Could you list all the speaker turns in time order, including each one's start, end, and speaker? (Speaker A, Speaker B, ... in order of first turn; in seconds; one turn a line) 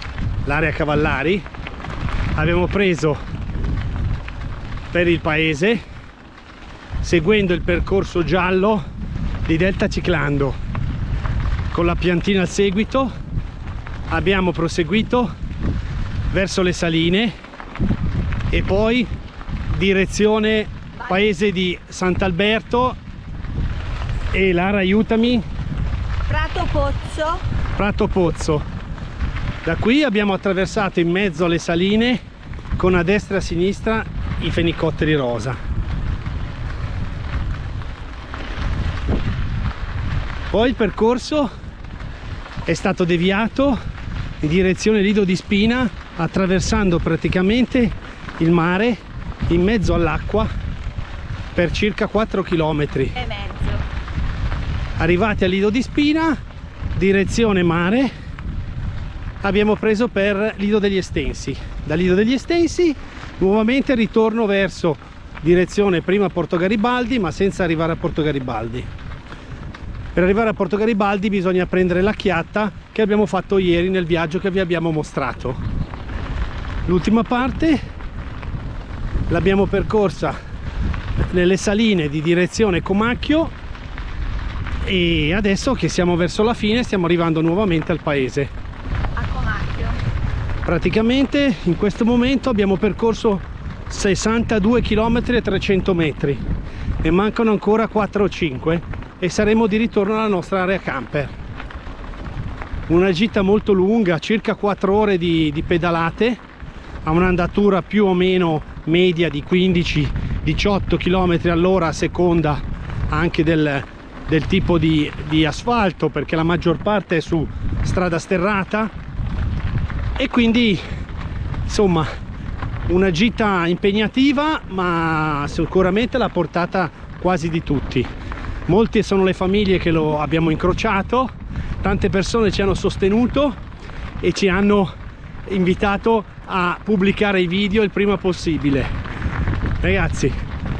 Speaker A: 0.4-1.4
Speaker A: 2.3-3.2
Speaker A: 4.9-5.8
Speaker A: 7.0-8.8
Speaker A: 9.4-10.6
Speaker A: 11.7-13.1
Speaker A: 14.1-15.3
Speaker A: 16.3-17.3
Speaker A: 18.5-19.1
Speaker A: 19.7-23.0
Speaker A: 24.3-25.4
Speaker B: 26.3-27.4
Speaker A: 27.8-28.6
Speaker A: 29.6-32.2
Speaker A: 32.8-35.6
Speaker A: 40.5-41.5
Speaker A: 42.6-43.8
Speaker A: 44.4-50.5
Speaker A: 51.5-53.1
Speaker B: 53.1-53.9
Speaker A: 55.0-56.4
Speaker A: 56.9-58.1
Speaker A: 59.4-68.9
Speaker A: 70.1-75.6
Speaker A: 76.8-77.8
Speaker A: 79.3-80.4
Speaker A: 81.2-83.5
Speaker A: 84.8-88.5
Speaker B: 89.2-90.0
Speaker A: 90.6-96.4
Speaker A: 97.0-101.3
Speaker A: 102.9-106.4
Speaker A: 107.0-118.9
Speaker A: 120.2-120.8
Speaker A: 121.7-122.1
Speaker A: 122.9-128.1
Speaker A: 128.7-133.6
Speaker A: 134.2-134.9
Speaker A: 135.4-138.9
Speaker A: 139.8-140.3